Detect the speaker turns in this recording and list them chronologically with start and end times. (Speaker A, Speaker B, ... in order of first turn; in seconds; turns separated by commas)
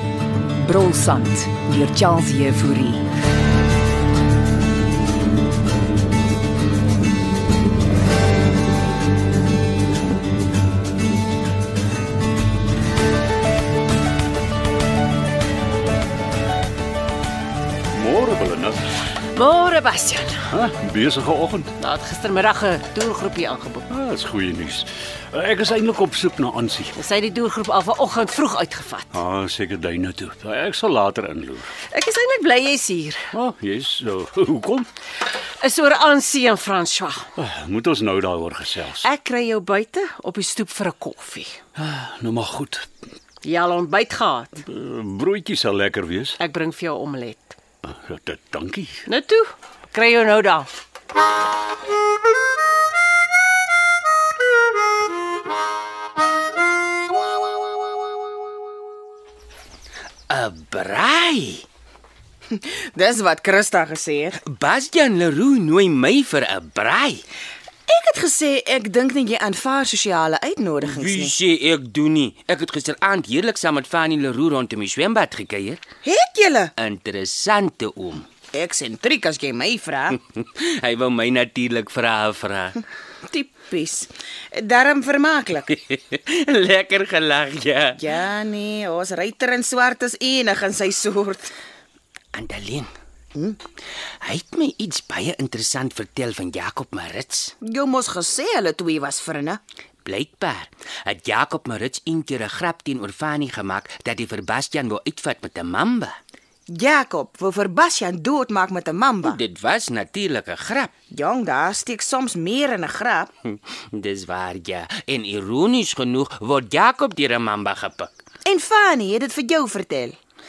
Speaker A: 0.6-3.1, Speaker B: 0.9-2.0, Speaker C: 17.9-19.0, Speaker D: 19.3-20.5, Speaker C: 20.5-21.7, Speaker D: 21.8-23.9, Speaker C: 23.9-26.9, Speaker D: 26.9-29.2, Speaker C: 29.1-31.7, Speaker D: 31.9-33.3, Speaker C: 33.3-34.9, Speaker D: 35.6-37.3, Speaker C: 37.4-39.1, Speaker D: 39.0-41.6, Speaker C: 41.8-42.9, Speaker D: 43.4-44.6, Speaker C: 44.6-46.4, Speaker D: 46.4-47.5, Speaker C: 47.8-49.0, Speaker D: 49.1-50.7, Speaker B: 60.3-61.6, Speaker E: 62.5-64.4, Speaker B: 64.3-67.2, Speaker E: 67.9-71.3, Speaker B: 70.8-75.8, Speaker E: 76.0-76.7, Speaker B: 76.8-78.3, Speaker E: 78.5-80.2, Speaker B: 80.1-82.8, Speaker E: 83.3-85.7, Speaker B: 85.7-88.1, Speaker E: 88.0-91.5, Speaker B: 92.3-92.9, Speaker B: 94.2-97.5, Speaker E: 97.6-99.6, Speaker B: 100.0-106.2, Speaker E: 106.7-109.4, Speaker B: 109.2-110.9, Speaker E: 111.1-113.3, Speaker B: 113.4-118.1, Speaker E: 118.5-120.2